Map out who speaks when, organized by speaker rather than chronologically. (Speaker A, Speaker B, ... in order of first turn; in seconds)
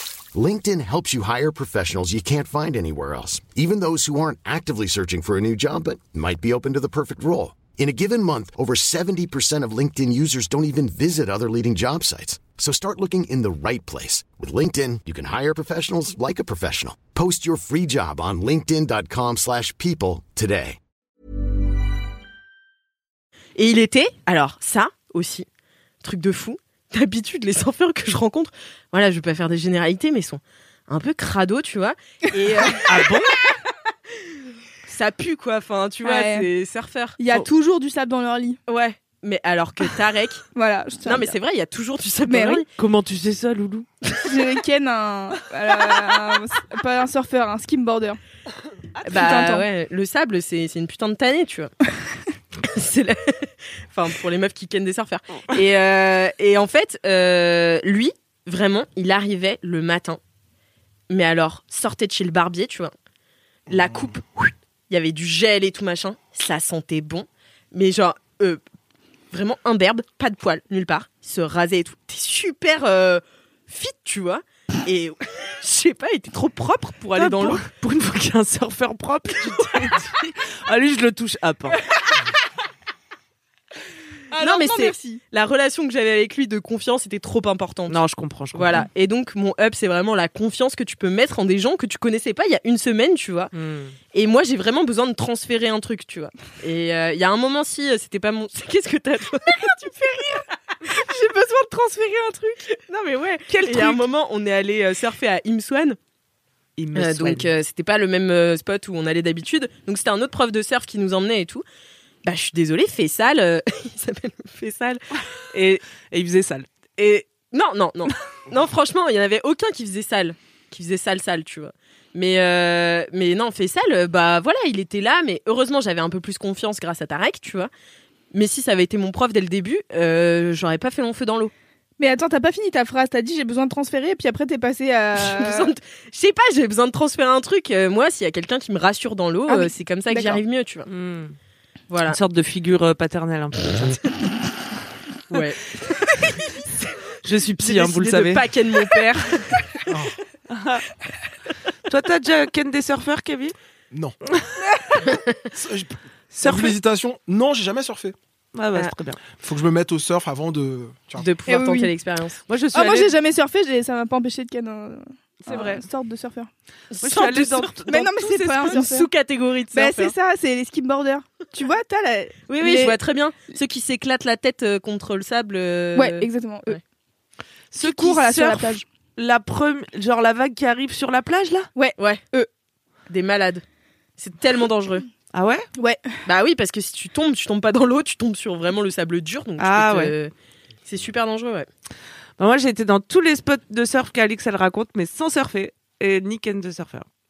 Speaker A: 0.3-20.8
Speaker B: 23.6-25.4, 26.0-33.2, 34.8-37.2, 38.7-40.4, 41.0-42.7, 49.0-51.7, 52.6-60.2, 61.1-62.9, 63.7-68.6, 69.3-77.6, 84.3-88.0, 88.5-93.5, 94.1-106.0, 106.9-111.6, 112.2-115.0, 117.0-127.7, 128.3-131.5, 135.2-140.9, 141.9-142.2, 145.3-146.2, 147.6-149.8, 161.2-162.4, 166.9-167.7, 168.6-170.1, 172.5-176.8, 183.1-183.6, 184.2-185.1, 186.2-190.3, 190.8-191.7
Speaker C: 32.9-33.3, 42.8-43.9, 77.1-81.8, 87.9-88.7, 93.5-94.0, 103.5-104.0, 106.8-107.5, 115.5-116.8, 140.9-141.4, 142.1-144.0, 147.2-148.4, 150.5-150.8, 151.9-153.6, 156.3-156.7, 158.5-159.2, 162.4-163.1, 165.4-165.8, 167.0-168.4, 177.7-181.7, 185.3-185.7, 189.6-190.1, 192.4-197.1
Speaker D: 36.0-36.5, 37.2-38.6, 40.5-41.3, 42.2-42.6, 44.2-48.2, 49.1-49.6, 84.3-85.0, 132.0-135.7, 139.5-140.4, 161.5-161.9, 162.7-166.5, 167.8-169.1, 169.7-173.0, 175.9-176.8, 177.8-178.8, 181.7-182.5, 185.8-186.1
Speaker E: 149.9-150.2, 155.5-158.2, 159.2-161.3